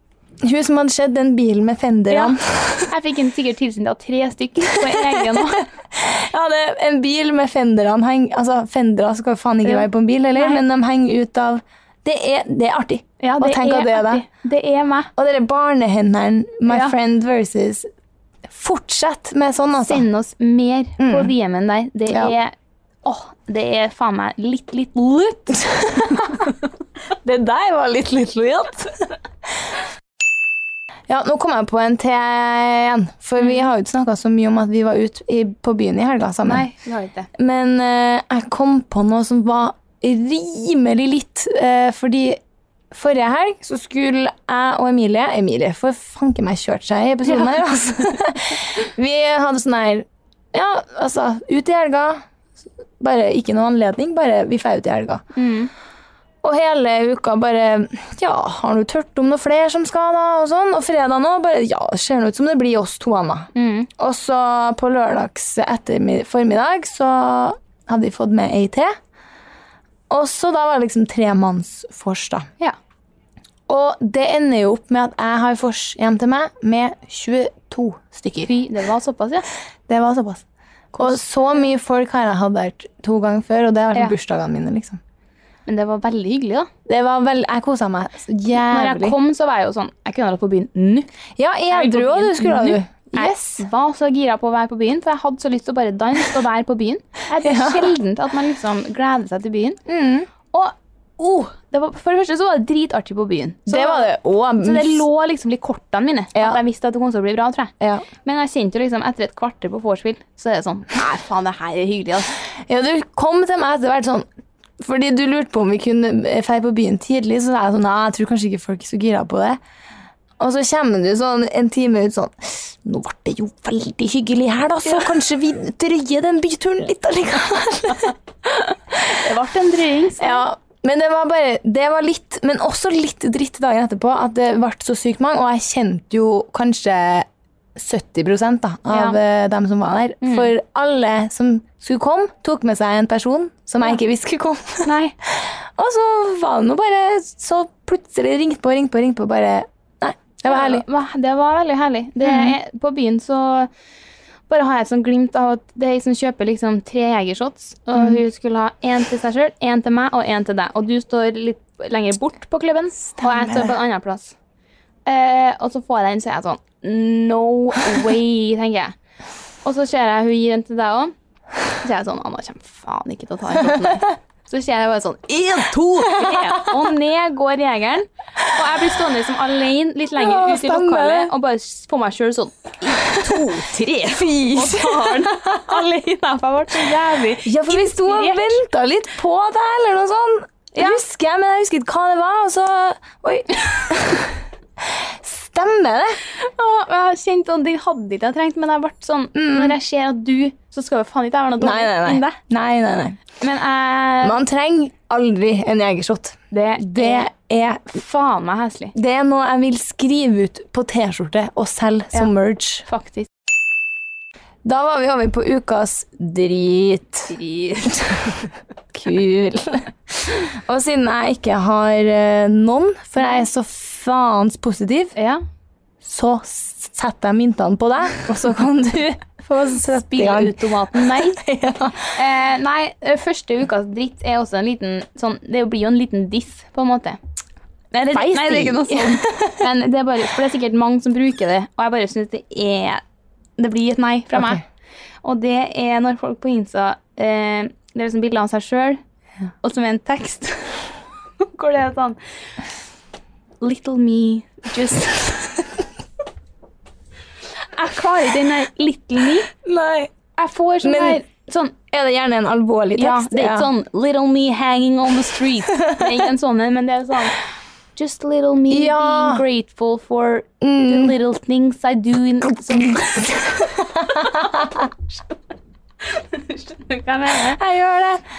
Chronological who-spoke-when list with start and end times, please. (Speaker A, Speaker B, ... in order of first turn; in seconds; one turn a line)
Speaker A: 0.4-2.9
Speaker B: 2.1-5.7
Speaker A: 4.7-14.2
Speaker B: 9.6-10.6
Speaker B: 13.2-15.1
Speaker A: 15.2-17.9
Speaker B: 16.7-16.9
Speaker A: 18.5-20.1
Speaker B: 19.8-25.6
Speaker A: 21.0-21.3
Speaker A: 25.5-26.4
Speaker A: 27.2-29.0
Speaker A: 31.1-36.7
Speaker B: 36.4-37.3
Speaker A: 37.4-42.4
Speaker A: 42.9-52.2
Speaker A: 53.0-55.2
Speaker B: 55.4-55.7
Speaker A: 56.4-68.9
Speaker B: 63.5-63.9
Speaker A: 70.1-72.5
Speaker A: 73.7-78.5
Speaker B: 78.5-79.5
Speaker A: 79.9-80.4
Speaker B: 80.9-81.2
Speaker A: 81.0-85.0
Speaker B: 85.7-86.7
Speaker A: 86.9-89.2
Speaker B: 88.5-91.1
Speaker A: 91.4-93.6
Speaker B: 91.7-99.8
Speaker A: 97.4-97.9
Speaker A: 99.9-100.3
Speaker B: 100.5-112.3
Speaker A: 103.7-105.1
Speaker A: 107.8-108.1
Speaker A: 112.7-114.3
Speaker A: 114.8-119.6
Speaker A: 120.4-128.2
Speaker B: 128.5-130.4
Speaker A: 130.2-150.8
Speaker B: 138.9-139.2
Speaker B: 140.2-140.5
Speaker B: 144.8-145.2
Speaker B: 150.4-153.7
Speaker A: 152.2-152.5
Speaker B: 154.5-164.3
Speaker A: 163.2-163.7
Speaker B: 165.1-168.9
Speaker B: 169.6-171.1
Speaker B: 171.8-188.6
Speaker A: 176.1-176.7
Speaker A: 180.2-181.3
Speaker A: 184.1-185.8
Speaker A: 187.4-194.4
Speaker B: 190.8-191.0
Speaker A: 194.9-196.2
Speaker B: 196.3-202.4
Speaker A: 199.3-199.8
Speaker A: 201.6-203.2
Speaker B: 203.4-204.4
Speaker A: 204.2-208.0
Speaker B: 206.5-207.3
Speaker B: 207.9-208.9
Speaker A: 208.9-212.9
Speaker B: 212.9-213.3
Speaker A: 214.7-217.4
Speaker B: 217.3-218.3
Speaker A: 217.9-218.3
Speaker A: 218.9-225.2
Speaker B: 225.2-225.4
Speaker A: 226.0-232.2
Speaker B: 230.0-231.4
Speaker B: 232.1-237.2
Speaker B: 237.9-243.0
Speaker A: 238.1-239.6
Speaker B: 243.6-244.6
Speaker A: 244.3-244.6
Speaker B: 245.2-249.0
Speaker B: 249.6-252.2
Speaker B: 253.6-255.6
Speaker B: 257.6-259.5
Speaker A: 259.6-260.1
Speaker B: 260.4-261.8
Speaker A: 260.8-261.2
Speaker A: 261.9-263.7
Speaker B: 262.9-267.4
Speaker A: 265.8-266.1
Speaker B: 267.9-275.2
Speaker A: 268.7-269.4
Speaker A: 270.6-271.1
Speaker A: 273.3-274.8
Speaker B: 276.0-277.6
Speaker A: 277.6-278.2